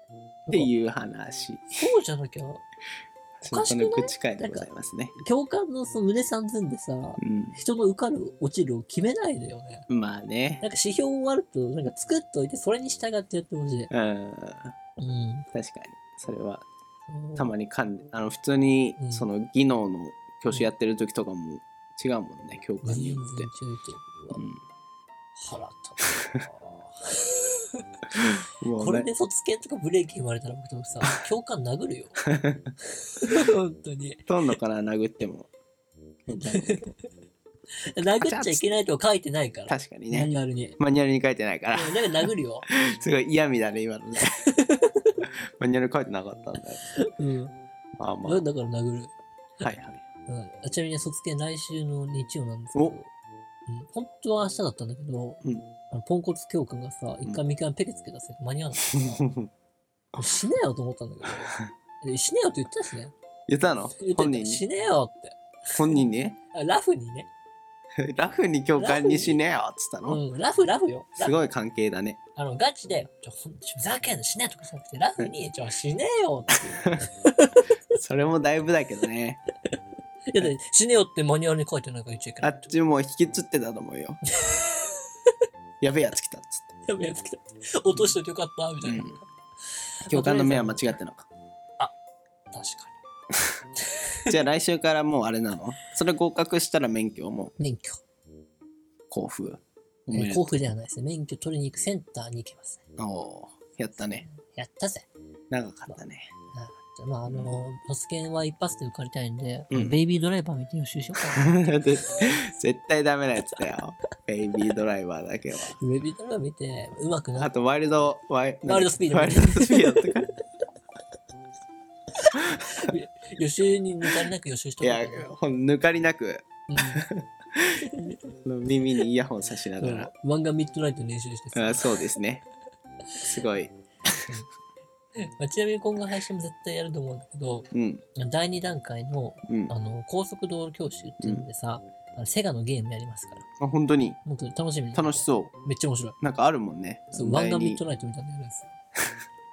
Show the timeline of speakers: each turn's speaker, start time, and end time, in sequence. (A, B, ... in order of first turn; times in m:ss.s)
0:00.5-0:01.8 A
0:01.8-0:02.6 B
0:03.4-0:05.2 A
0:03.5-0:09.9 B
0:07.2-0:07.6 A
0:09.9-0:10.6 A
0:10.6-0:13.9 B
0:13.9-0:14.8 A
0:15.0-0:15.5 B
0:15.5-0:16.7 A
0:17.1-0:17.5 B
0:17.4-0:23.5 A
0:19.0-0:19.3 B
0:22.8-0:24.4 B
0:24.3-0:24.6 A
0:25.4-0:27.8 B
0:26.0-0:26.4 A
0:28.6-0:29.1 A
0:28.8-0:32.2 B
0:32.3-0:32.7 A
0:33.2-0:34.3 B
0:34.3-0:35.5 A
0:36.3-0:36.8 A
0:36.3-0:37.0 B
0:38.0-0:40.8 B
0:38.0-0:38.8 A
0:39.7-0:44.4 A
0:41.7-0:42.7 B
0:44.5-0:45.1 B
0:45.6-0:46.9 A
0:47.0-0:47.6 B
0:48.0-0:48.5 A
0:48.2-0:49.8 B
0:49.6-0:50.0 A
0:50.3-0:53.1 B
0:53.7-0:59.2 B
0:55.4-0:55.7 A
0:58.9-0:59.5 A
1:00.2-1:01.5 B
1:02.0-1:03.1 B
1:03.5-1:04.6 A
1:04.0-1:07.3 B
1:05.8-1:06.4 A
1:08.0-1:10.2 A
1:08.8-1:09.4 B
1:10.1-1:11.4 B
1:11.2-1:12.2 A
1:12.4-1:17.7 B
1:18.0-1:19.4 A
1:20.3-1:22.7 B
1:22.4-1:24.2 A
1:24.4-1:25.0 B
1:25.8-1:26.8 A
1:26.9-1:29.2 B
1:28.8-1:29.2 A
1:30.0-1:31.0 B
1:30.1-1:31.3 A
1:32.5-1:33.0 B
1:33.8-1:34.3 B
1:34.3-1:37.5 A
1:37.6-1:38.0 B
1:39.1-1:40.5 A
1:40.1-1:42.8 B
1:43.0-1:44.2 A
1:44.0-1:45.1 B
1:45.5-1:46.3 A
1:46.5-1:52.3 B
1:47.3-1:47.6 A
1:49.7-1:50.0 A
1:51.3-1:55.8 A
1:55.7-1:57.5 B
1:57.4-2:00.3 A
1:58.7-2:00.1 B
2:02.3-2:05.3 B
2:04.8-2:07.8 A
2:06.7-2:07.0 B
2:07.9-2:08.1 B
2:08.4-2:10.1 A
2:09.8-2:12.1 B
2:11.5-2:12.4 A
2:13.2-2:14.3 A
2:15.2-2:23.4 B
2:17.7-2:18.0 A
2:19.5-2:19.7 A
2:21.2-2:21.5 A
2:23.6-2:24.2 A
2:24.2-2:26.2 B
2:24.9-2:25.5 A
2:26.2-2:27.8 A
2:27.1-2:28.7 B